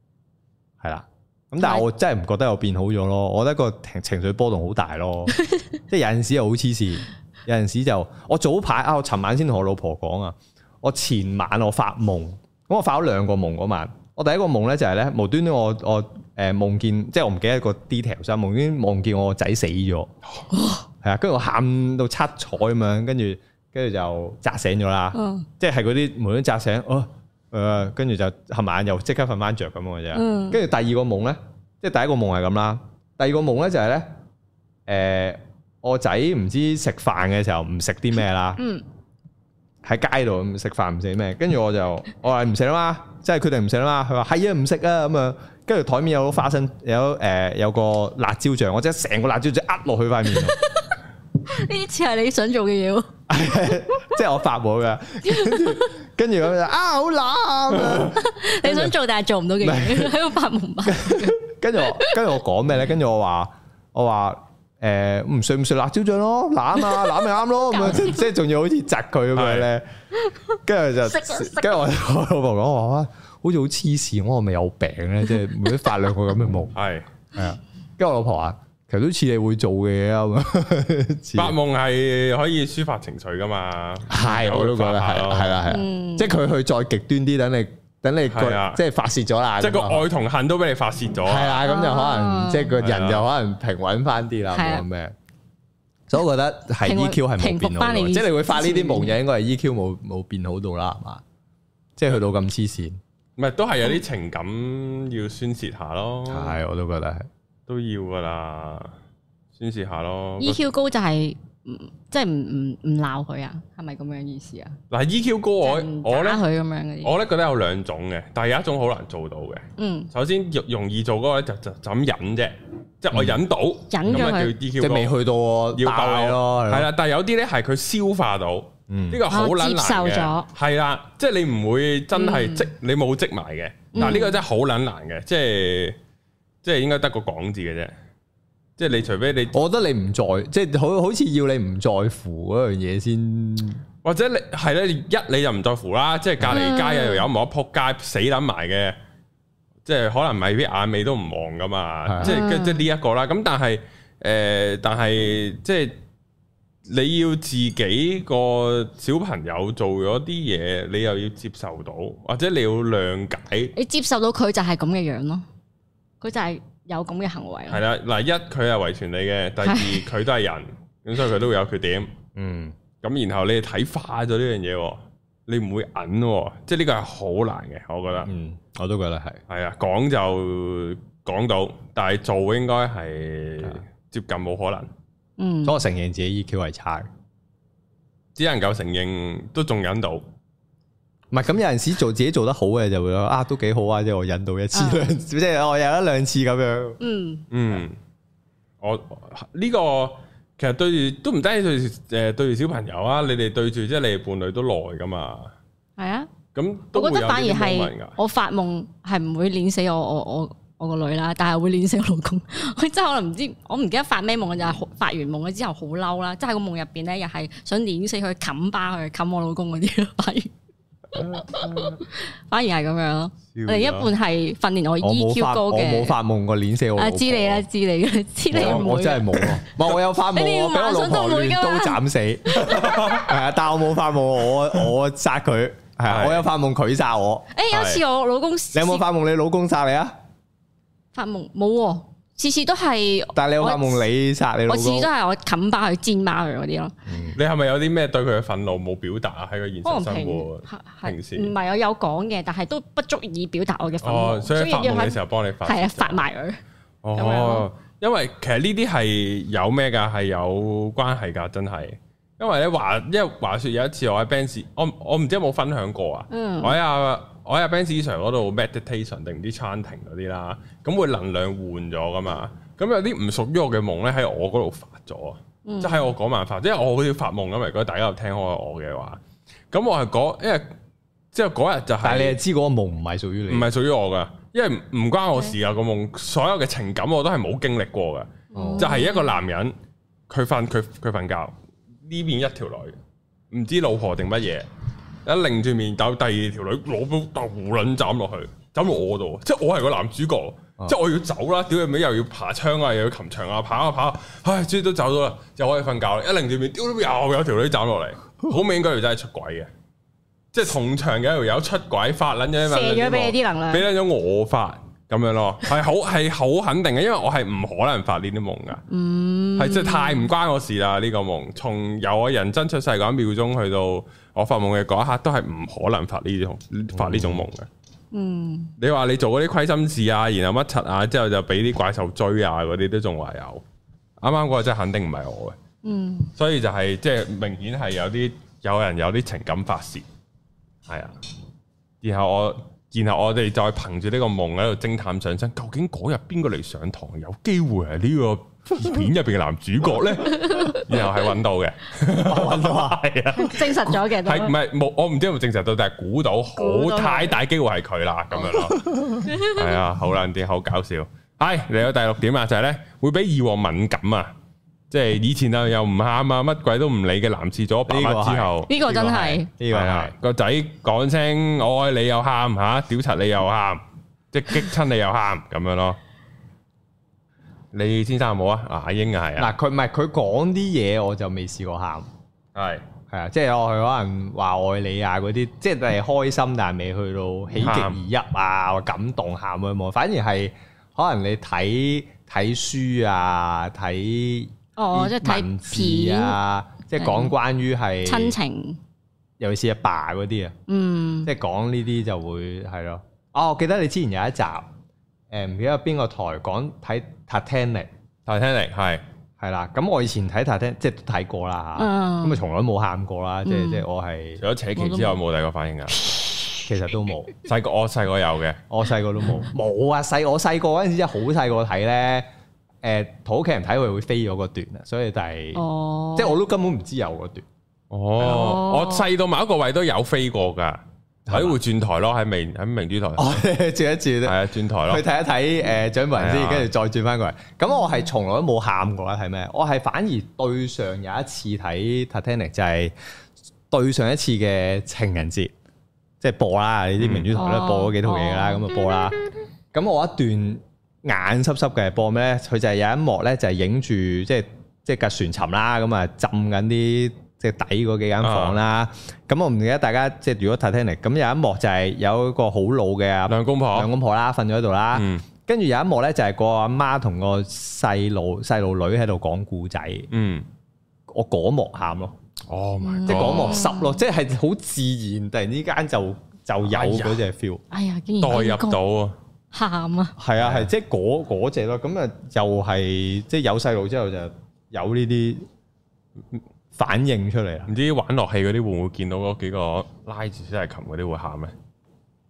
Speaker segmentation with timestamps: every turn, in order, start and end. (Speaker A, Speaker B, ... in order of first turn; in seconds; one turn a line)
Speaker A: 0.8-5.4
Speaker B: 1.6-1.9
Speaker A: 5.9-20.1
Speaker B: 20.5-20.9
Speaker A: 21.0-34.1
Speaker B: 25.1-25.5
Speaker B: 30.1-30.6
Speaker A: 34.9-38.6
Speaker B: 38.6-38.8
Speaker A: 39.8-50.6
Speaker B: 50.5-51.0
Speaker B: 51.5-53.1
Speaker A: 53.3-58.9
Speaker B: 55.2-55.9
Speaker B: 57.9-62.3
Speaker A: 59.6-60.2
Speaker A: 60.9-69.9
Speaker B: 67.7-68.2
Speaker C: 69.3-69.7
Speaker A: 70.7-76.8
Speaker B: 71.2-71.7
Speaker C: 76.8-77.1
Speaker A: 77.3-81.5
Speaker C: 81.3-85.6
Speaker A: 84.1-90.1
Speaker B: 85.7-86.3
Speaker C: 88.3-88.8
Speaker C: 89.6-91.6
Speaker A: 91.2-95.1
Speaker B: 91.6-92.8
Speaker C: 92.8-93.3
Speaker B: 94.5-94.8
Speaker A: 96.1-101.2
Speaker B: 96.8-99.2
Speaker A: 102.0-103.0
Speaker C: 103.4-106.6
Speaker A: 106.3-107.3
Speaker C: 107.7-108.9
Speaker C: 109.5-110.6
Speaker B: 110.4-114.8
Speaker C: 114.9-116.4
Speaker B: 115.6-117.2
Speaker C: 117.0-125.1
Speaker B: 119.8-120.1
Speaker A: 123.1-123.4
Speaker B: 123.9-124.5
Speaker A: 124.1-126.9
Speaker C: 125.8-136.0
Speaker A: 128.9-129.2
Speaker B: 129.3-130.5
Speaker B: 132.2-132.7
Speaker B: 133.9-134.4
Speaker C: 136.6-137.9
Speaker C: 138.8-139.6
Speaker A: 139.5-143.8
Speaker C: 144.0-149.0
Speaker B: 146.5-147.3
Speaker C: 149.8-156.0
Speaker A: 152.1-152.4
Speaker B: 152.2-152.9
Speaker C: 156.9-163.7
Speaker B: 163.8-165.4
Speaker B: 166.2-167.8
Speaker C: 167.7-172.1
Speaker B: 169.6-170.1
Speaker A: 172.4-172.8
Speaker C: 173.0-178.3
Speaker A: 178.3-179.4
Speaker C: 179.5-184.9
Speaker B: 185.4-185.8
Speaker A: 185.6-187.1
Speaker C: 188.3-190.2
Speaker A: 191.3-197.0
Speaker B: 194.7-195.1
Speaker B: 197.0-197.5
Speaker C: 197.5-198.0
Speaker C: 198.8-205.5
Speaker B: 206.0-206.3
Speaker C: 206.5-208.2
Speaker B: 206.9-220.5
Speaker B: 221.2-226.2
Speaker C: 221.2-222.0
Speaker C: 223.5-224.1
Speaker A: 225.0-227.7
Speaker B: 227.0-232.0
Speaker A: 228.5-237.5
Speaker C: 228.6-228.8
Speaker C: 232.7-233.3
Speaker C: 236.1-236.5
Speaker B: 237.6-239.0
Speaker C: 237.7-238.0
Speaker A: 238.7-240.1
Speaker B: 241.1-244.1
Speaker A: 243.3-245.1
Speaker B: 244.7-246.9
Speaker A: 247.1-247.4
Speaker C: 247.4-251.5
Speaker B: 249.8-256.6
Speaker C: 254.0-256.2
Speaker C: 257.0-279.2
Speaker B: 257.2-257.7
Speaker B: 266.3-266.8
Speaker B: 275.6-276.1
Speaker C: 279.7-280.7
Speaker C: 281.3-282.4
Speaker A: 282.0-283.7
Speaker C: 283.5-289.7
Speaker B: 288.5-289.4
Speaker A: 288.5-288.9
Speaker C: 290.3-291.5
Speaker C: 292.1-293.0
Speaker C: 293.5-294.7
Speaker C: 295.2-309.7
Speaker C: 310.5-318.8
Speaker B: 312.6-313.9
Speaker B: 318.9-320.3
Speaker C: 319.6-327.7
Speaker A: 326.9-327.4
Speaker B: 328.1-328.7
Speaker C: 328.8-333.6
Speaker C: 334.2-335.6
Speaker B: 335.8-336.3
Speaker C: 336.4-340.1
Speaker C: 340.9-341.1
Speaker C: 342.0-364.3
Speaker B: 350.3-350.8
Speaker A: 352.2-353.0
Speaker B: 353.4-354.6
Speaker B: 356.6-357.4
Speaker B: 359.3-359.6
Speaker C: 364.9-369.1
Speaker A: 367.9-370.1
Speaker B: 368.7-369.5
Speaker C: 369.7-376.0
Speaker C: 377.7-379.5
Speaker A: 379.4-382.1
Speaker C: 382.6-382.9
Speaker A: 383.1-398.4
Speaker C: 387.6-388.0
Speaker B: 394.8-396.4
Speaker B: 397.0-397.4
Speaker B: 398.1-398.8
Speaker A: 399.4-400.6
Speaker B: 400.7-401.3
Speaker A: 401.2-404.7
Speaker A: 405.3-407.9
Speaker C: 408.3-409.0
Speaker A: 409.4-414.4
Speaker B: 411.8-412.4
Speaker B: 413.4-413.9
Speaker C: 414.4-416.0
Speaker B: 414.8-415.2
Speaker A: 416.7-417.3
Speaker C: 417.4-418.6
Speaker A: 418.7-422.3
Speaker A: 422.8-425.6
Speaker B: 425.6-426.4
Speaker A: 426.2-427.4
Speaker C: 427.9-433.4
Speaker B: 428.2-429.1
Speaker A: 431.3-431.6
Speaker A: 433.2-442.9
Speaker C: 434.2-435.0
Speaker C: 436.2-436.7
Speaker A: 443.7-445.5
Speaker A: 446.2-449.2
Speaker C: 447.0-447.3
Speaker B: 447.3-449.1
Speaker A: 449.7-470.1
Speaker C: 458.2-458.6
Speaker C: 463.3-463.9
Speaker C: 464.9-465.2
Speaker C: 470.1-470.5
Speaker A: 471.1-472.1
Speaker C: 472.5-473.6
Speaker B: 472.8-474.0
Speaker A: 473.1-477.6
Speaker C: 476.7-477.2
Speaker B: 477.7-478.8
Speaker C: 478.2-479.2
Speaker B: 479.5-480.2
Speaker A: 480.2-485.4
Speaker C: 480.4-480.7
Speaker A: 486.7-487.7
Speaker C: 487.7-491.5